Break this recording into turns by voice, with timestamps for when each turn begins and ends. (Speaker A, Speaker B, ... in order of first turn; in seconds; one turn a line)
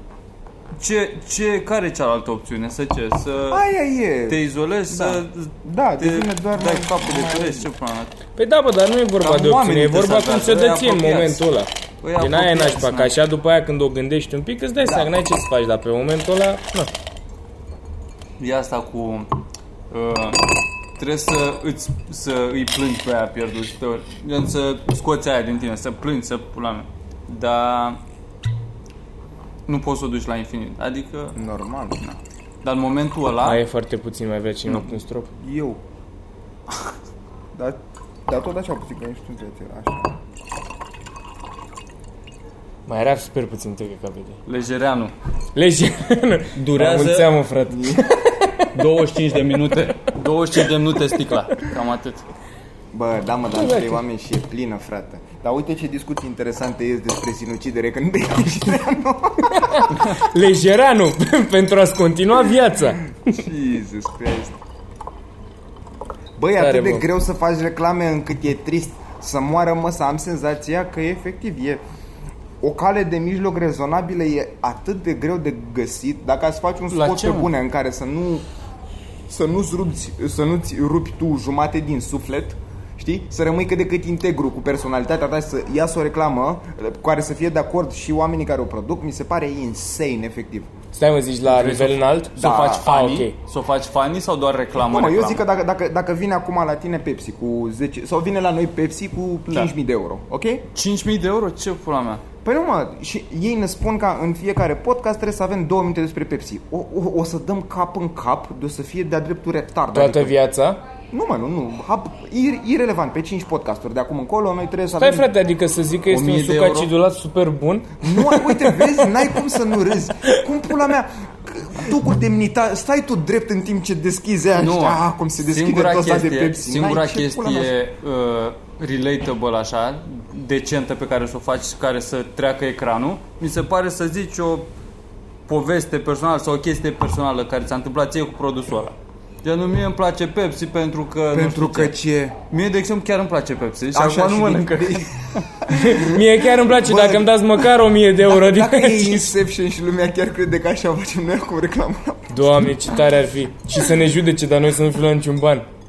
Speaker A: 0.7-3.6
Speaker B: 3.5-7.7
Speaker A: 4.3-8.1
Speaker C: 8.4-16.9
Speaker A: 9.2-11.4
Speaker A: 12.0-13.1
Speaker A: 18.4-19.3
Speaker A: 19.9-28.0
Speaker A: 29.7-31.4
Speaker B: 31.3-32.0
Speaker A: 32.0-33.6
Speaker C: 33.4-35.3
Speaker B: 35.4-35.8
Speaker B: 37.5-40.2
Speaker C: 42.9-44.4
Speaker A: 44.5-45.1
Speaker C: 45.5-48.7
Speaker A: 46.5-47.3
Speaker B: 47.7-48.2
Speaker A: 48.7-52.2
Speaker B: 52.9-60.0
Speaker C: 53.5-54.0
Speaker C: 59.5-63.1
Speaker B: 63.2-64.5
Speaker B: 66.4-71.8
Speaker C: 66.6-67.0
Speaker B: 72.6-78.5
Speaker A: 76.9-77.5
Speaker B: 79.3-90.7
Speaker C: 90.9-93.3
Speaker A: 91.5-95.4
Speaker B: 92.4-92.8
Speaker B: 94.8-100.7
Speaker A: 100.7-102.2
Speaker B: 102.4-110.3
Speaker C: 109.9-110.8
Speaker B: 111.1-115.3
Speaker C: 115.0-119.2
Speaker A: 116.1-116.9
Speaker B: 118.0-127.7
Speaker A: 124.5-134.7
Speaker A: 135.5-141.9
Speaker B: 141.3-142.3
Speaker A: 142.5-145.4
Speaker B: 143.9-147.7
Speaker C: 145.7-149.3
Speaker B: 148.2-152.4
Speaker C: 152.3-155.7